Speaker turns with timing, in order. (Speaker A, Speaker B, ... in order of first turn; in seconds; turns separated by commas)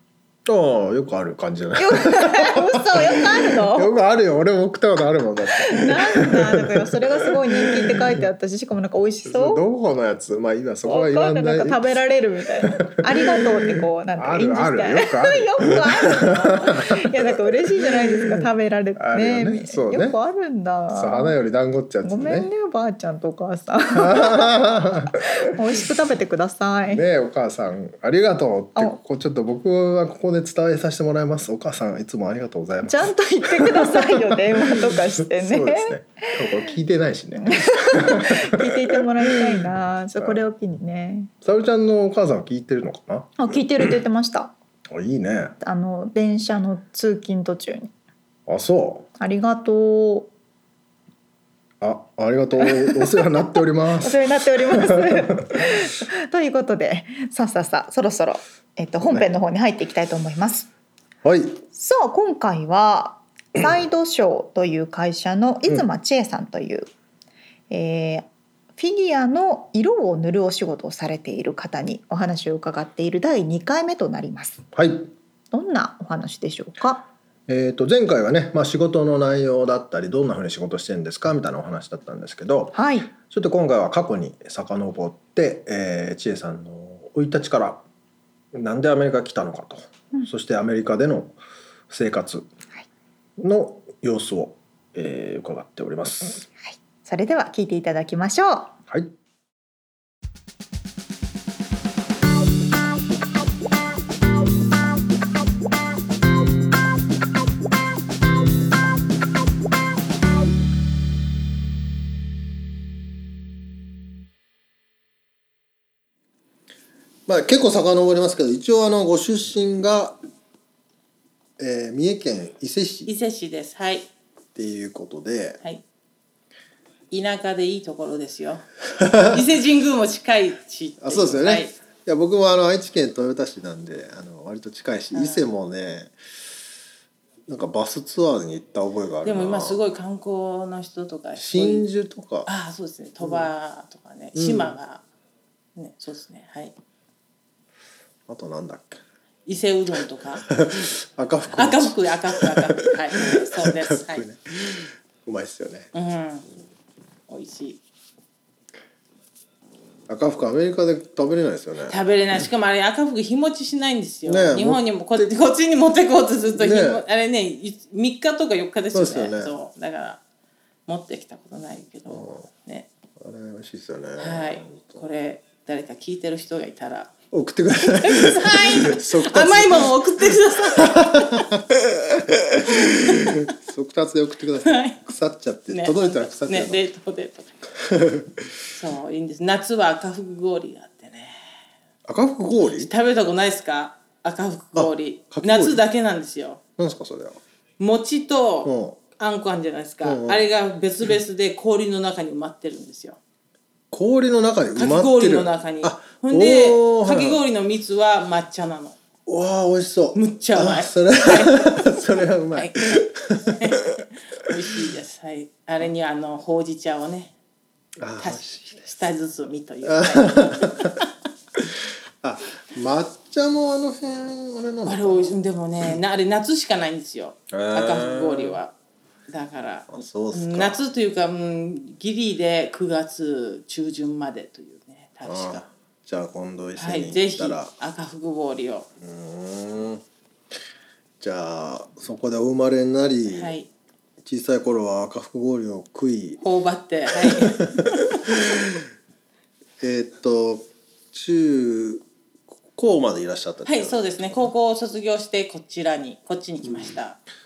Speaker A: 0.5-8.3, Speaker B: 1.8-4.0, Speaker B: 5.5-9.6, Speaker A: 9.3-11.8, Speaker B: 10.8-21.3, Speaker A: 12.8-20.2, Speaker C: 16.3-16.7, Speaker A: 20.9-22.5, Speaker B: 22.0-24.6, Speaker A: 23.9-25.3, Speaker B: 25.1-27.0, Speaker A: 26.9-40.4, Speaker B: 32.8-36.7, Speaker B: 37.4-41.3, Speaker A: 41.4-44.0, Speaker B: 43.4-44.5, Speaker A: 44.9-45.5, Speaker B: 45.6-47.9, Speaker A: 48.5-49.1, Speaker B: 49.2-50.3, Speaker A: 51.8-55.8, Speaker B: 52.6-60.7, Speaker A: 61.2-61.6, Speaker B: 61.7-66.9, Speaker B: 67.7-68.3, Speaker B: 68.8-74.7, Speaker A: 74.7-75.1, Speaker B: 75.5-77.0, Speaker A: 77.5-87.8, Speaker B: 82.7-83.1, Speaker A: 88.5-91.4, Speaker A: 91.9-92.5, Speaker A: 93.4-96.5, Speaker B: 96.7-98.8, Speaker A: 117.3-120.2, Speaker A: 121.6-123.1, Speaker C: 123.1-124.1, Speaker A: 124.5-125.6, Speaker C: 127.1-128.7, Speaker A: 129.0-129.4, Speaker C: 129.2-131.8, Speaker A: 131.0-136.1, Speaker C: 135.1-135.5, Speaker A: 137.5-139.8, Speaker C: 139.2-141.8, Speaker A: 141.4-142.5, Speaker C: 142.5-145.0, Speaker A: 143.2-143.5, Speaker A: 144.3-144.8, Speaker C: 145.8-146.7, Speaker A: 148.3-149.0, Speaker C: 149.5-150.5, Speaker A: 150.4-155.9, Speaker C: 151.5-154.3, Speaker C: 155.9-156.5, Speaker C: 157.3-157.8, Speaker A: 160.1-162.4, Speaker C: 161.9-170.2, Speaker A: 164.3-165.3, Speaker A: 166.6-167.0, Speaker A: 168.9-169.5, Speaker C: 170.9-172.9, Speaker A: 172.1-172.5, Speaker A: 173.2-175.0, Speaker C: 174.2-177.1, Speaker A: 177.3-186.8, Speaker C: 177.8-181.5, Speaker C: 182.7-183.5, Speaker C: 184.6-185.0, Speaker C: 185.7-187.5, Speaker A: 187.8-188.5, Speaker C: 188.7-191.4, Speaker A: 192.1-192.9, Speaker C: 192.6-196.6, Speaker A: 194.8-195.8, Speaker A: 196.8-197.4, Speaker C: 197.8-203.2, Speaker A: 198.6-199.0, Speaker A: 200.0-200.5, Speaker A: 203.9-207.4, Speaker C: 204.8-209.0, Speaker A: 209.3-214.9, Speaker C: 210.2-213.0, Speaker C: 213.5-217.3, Speaker A: 218.0-218.8, Speaker C: 218.2-221.0, Speaker A: 219.8-221.0, Speaker A: 221.6-225.4, Speaker C: 224.8-228.7, Speaker A: 227.5-228.6, Speaker C: 229.3-235.6, Speaker A: 229.9-230.8, Speaker A: 235.2-237.7, Speaker C: 236.8-238.9, Speaker A: 239.0-240.0, Speaker A: 241.2-243.5, Speaker C: 243.3-243.7, Speaker A: 244.2-246.4, Speaker C: 246.4-248.3, Speaker A: 247.1-248.8, Speaker A: 249.8-252.0, Speaker A: 252.7-254.5, Speaker C: 253.7-257.2